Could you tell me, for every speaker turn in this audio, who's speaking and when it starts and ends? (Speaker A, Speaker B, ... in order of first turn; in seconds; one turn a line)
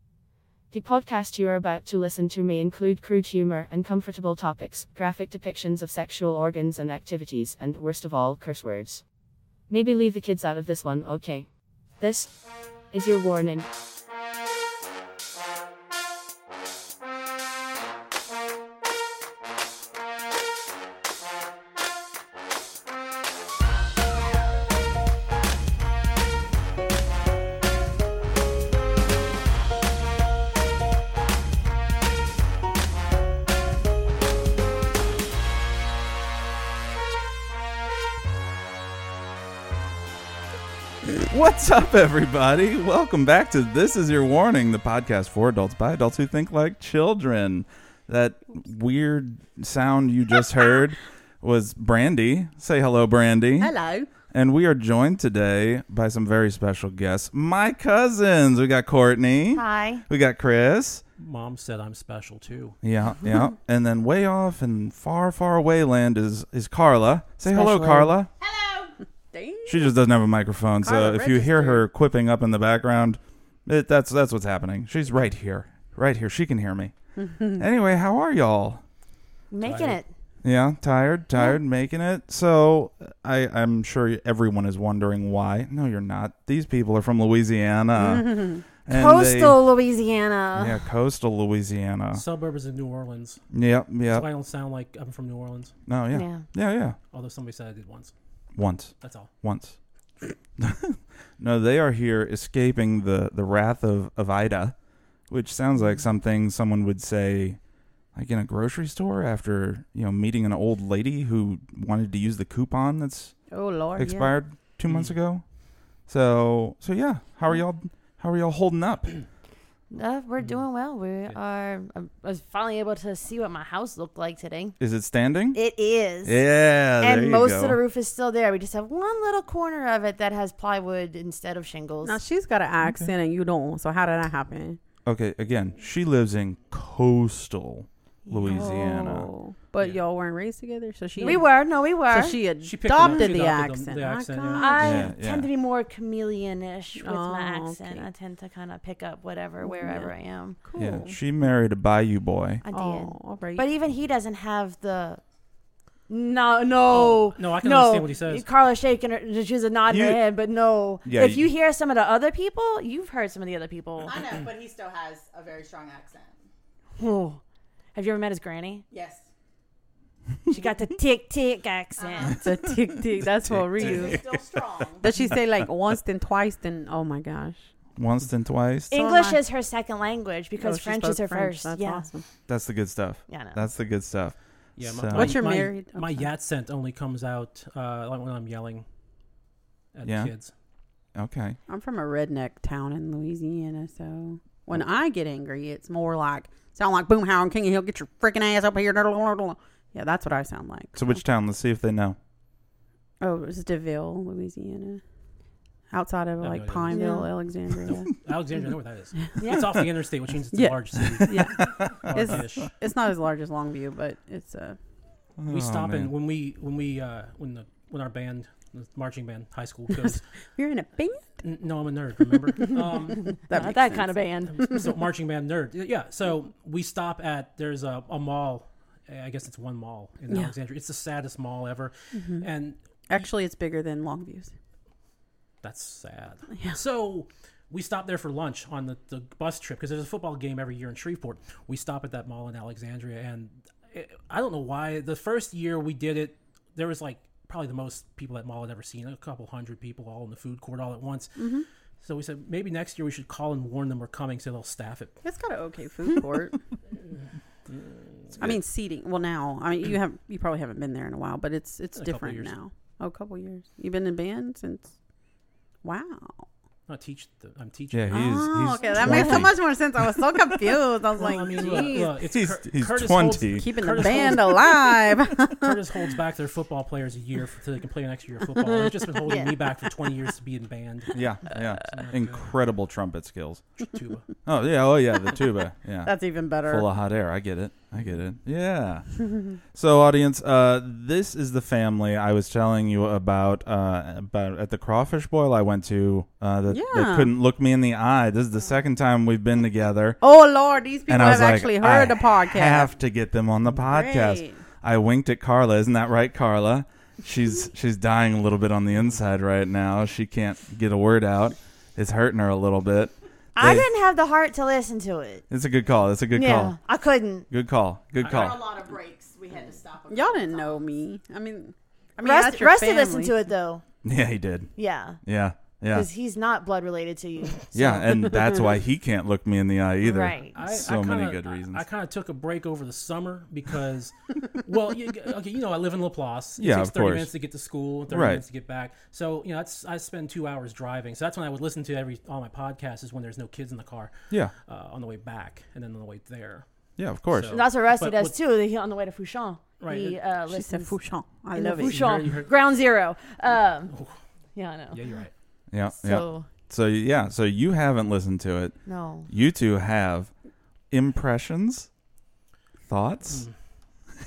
Speaker A: 0.7-9.0
Speaker A: 9.7-11.5
Speaker A: 12.0-12.3
Speaker A: 12.9-13.7
Speaker B: 41.3-53.7
Speaker C: 53.6-54.1
Speaker B: 54.3-61.0
Speaker D: 59.5-60.0
Speaker E: 61.2-62.8
Speaker B: 62.8-68.3
Speaker D: 67.5-68.1
Speaker F: 68.4-69.0
Speaker C: 69.3-69.9
Speaker B: 69.7-78.8
Speaker C: 70.8-71.9
Speaker C: 77.2-77.6
Speaker D: 79.5-80.1
Speaker E: 79.6-80.0
Speaker B: 80.4-89.6
Speaker C: 88.3-88.6
Speaker D: 88.9-90.9
Speaker B: 90.5-92.2
Speaker E: 92.1-93.4
Speaker B: 93.5-94.3
Speaker E: 94.1-95.7
Speaker B: 95.9-97.0
Speaker D: 96.1-96.5
Speaker E: 97.1-98.1
Speaker B: 98.6-99.8
Speaker E: 99.0-99.3
Speaker B: 100.6-104.8
Speaker B: 105.3-107.6
Speaker B: 108.1-113.4
Speaker C: 113.5-114.4
Speaker B: 114.0-115.4
Speaker E: 114.9-115.2
Speaker B: 116.1-119.2
Speaker D: 119.9-124.8
Speaker B: 124.8-125.6
Speaker D: 125.5-126.5
Speaker B: 126.2-127.8
Speaker D: 127.0-132.2
Speaker C: 132.0-134.8
Speaker B: 132.8-133.1
Speaker B: 135.1-139.3
Speaker D: 138.3-138.8
Speaker C: 138.5-141.5
Speaker D: 141.2-142.4
Speaker C: 142.1-145.1
Speaker E: 142.6-145.0
Speaker D: 143.0-143.3
Speaker D: 144.6-150.6
Speaker B: 144.8-145.5
Speaker C: 147.0-148.1
Speaker C: 149.6-151.2
Speaker B: 150.8-152.6
Speaker D: 152.6-155.2
Speaker C: 152.7-153.7
Speaker D: 156.1-164.2
Speaker E: 156.9-158.5
Speaker B: 159.9-160.2
Speaker B: 161.1-161.4
Speaker F: 164.1-166.4
Speaker D: 167.0-167.4
Speaker D: 167.9-168.8
Speaker F: 168.9-169.3
Speaker D: 170.5-172.4
Speaker F: 172.0-172.4
Speaker C: 172.4-174.2
Speaker B: 173.5-174.4
Speaker F: 173.8-175.1
Speaker C: 175.0-177.7
Speaker B: 178.0-178.9
Speaker C: 178.9-179.4
Speaker D: 178.9-182.1
Speaker C: 180.6-182.2
Speaker B: 182.5-185.4
Speaker D: 183.3-183.6
Speaker E: 184.8-188.9
Speaker C: 185.1-186.3
Speaker E: 189.9-190.5
Speaker B: 190.1-190.3
Speaker B: 191.2-191.6
Speaker C: 191.7-201.0
Speaker B: 200.9-202.2
Speaker C: 203.2-205.0
Speaker C: 205.9-208.1
Speaker E: 206.4-207.1
Speaker D: 206.9-207.3
Speaker E: 207.9-212.7
Speaker D: 209.4-209.7
Speaker C: 210.5-214.8
Speaker B: 211.6-211.9
Speaker B: 215.4-216.1
Speaker E: 215.5-220.2
Speaker C: 220.6-221.3
Speaker E: 221.4-223.3
Speaker C: 222.6-224.8
Speaker D: 223.5-224.8
Speaker E: 224.5-232.8
Speaker C: 230.3-230.5
Speaker C: 232.2-232.5
Speaker C: 233.1-234.5
Speaker E: 235.6-251.4
Speaker C: 251.4-251.7
Speaker E: 252.0-255.2
Speaker C: 255.2-256.6
Speaker E: 257.7-258.6
Speaker C: 258.4-264.9
Speaker E: 262.0-262.5
Speaker C: 265.8-266.5
Speaker E: 266.9-269.5
Speaker B: 267.9-270.8
Speaker C: 268.1-272.1
Speaker E: 271.2-274.9
Speaker B: 272.3-273.6
Speaker C: 273.6-275.8
Speaker E: 275.5-281.2
Speaker D: 279.1-279.6
Speaker B: 281.1-283.7
Speaker E: 281.9-282.5
Speaker E: 283.8-284.3
Speaker B: 284.4-300.2
Speaker C: 286.0-286.9
Speaker C: 296.7-297.4
Speaker C: 300.2-302.9
Speaker B: 301.1-313.9
Speaker C: 303.8-304.6
Speaker D: 313.6-315.4
Speaker B: 315.5-316.8
Speaker D: 316.3-317.5
Speaker B: 317.5-318.6
Speaker F: 318.2-320.8
Speaker C: 320.1-323.3
Speaker D: 322.2-323.8
Speaker B: 324.0-324.7
Speaker D: 324.8-325.2
Speaker B: 325.2-326.1
Speaker D: 325.9-328.4
Speaker B: 327.7-331.9
Speaker D: 330.0-330.6
Speaker E: 330.5-346.6
Speaker B: 336.6-337.3
Speaker B: 338.1-338.4
Speaker B: 347.0-347.6
Speaker E: 347.3-348.4
Speaker D: 347.5-350.9
Speaker E: 349.8-350.2
Speaker C: 349.9-352.1
Speaker D: 351.6-353.9
Speaker E: 351.9-352.5
Speaker E: 353.9-354.2
Speaker D: 354.6-355.0
Speaker E: 354.9-355.3
Speaker B: 355.7-360.3
Speaker D: 355.9-356.5
Speaker D: 358.9-359.3
Speaker B: 360.9-361.9
Speaker B: 362.9-363.5
Speaker E: 363.3-363.5